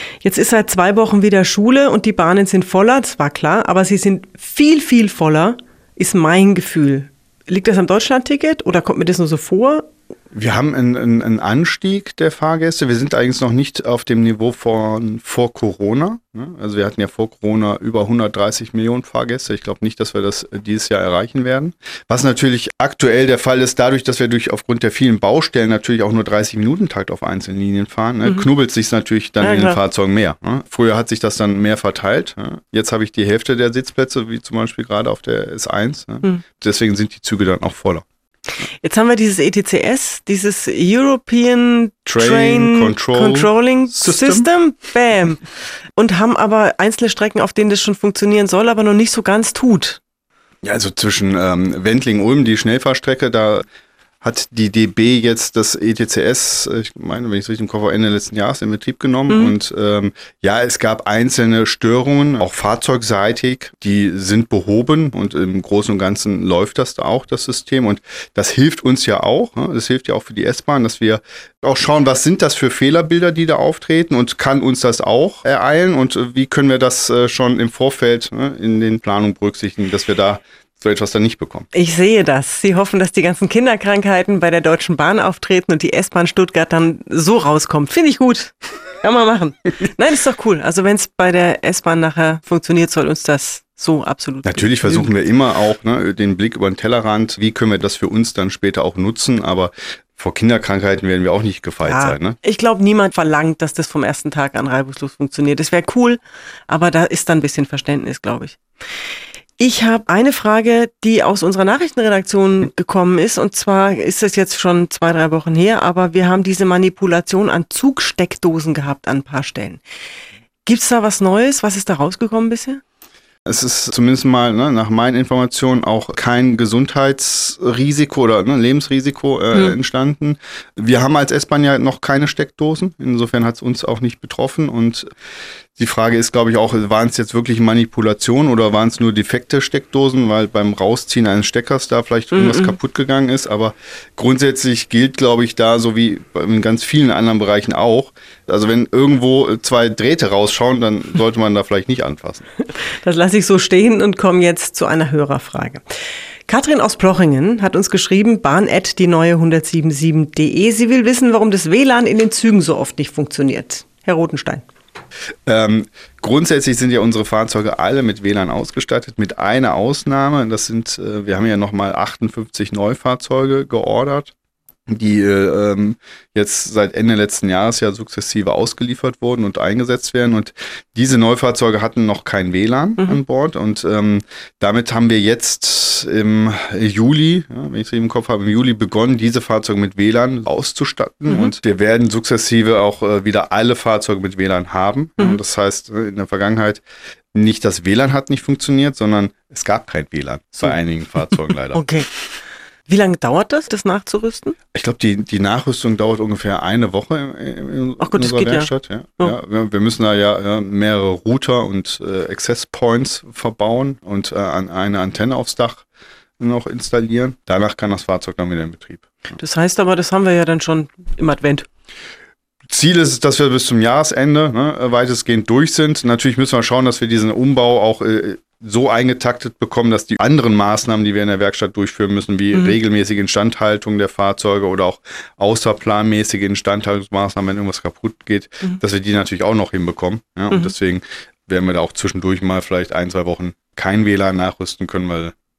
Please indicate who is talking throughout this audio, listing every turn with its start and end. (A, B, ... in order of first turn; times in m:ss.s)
0:00.2-0:09.9 A
0:10.3-0:38.0 B
0:29.4-0:29.8 A
0:38.8-0:45.4 A
0:42.1-0:44.5 B
0:46.0-0:50.0 A
0:50.6-0:53.6 B
0:54.2-1:21.7 B
0:59.3-0:59.6 A
1:21.7-1:35.1 A
1:34.4-1:42.4 B
1:41.8-1:48.6 A
1:49.6-1:59.8 A
2:00.6-2:02.8 A
2:03.5-2:15.1 B
2:15.8-2:32.5 B
2:22.3-2:22.8 A
2:33.0-2:35.8 A
2:36.5-2:44.6 A
2:45.5-2:54.3 B
2:54.9-3:16.8 B
3:11.3-3:11.5 A
3:17.3-3:21.9 B
3:21.7-3:22.1 A
3:22.9-3:24.6 A
3:24.7-3:35.8 B
3:28.0-3:29.4 A
3:36.4-3:39.1 B
3:39.3-3:41.7 A
3:42.7-4:05.3 B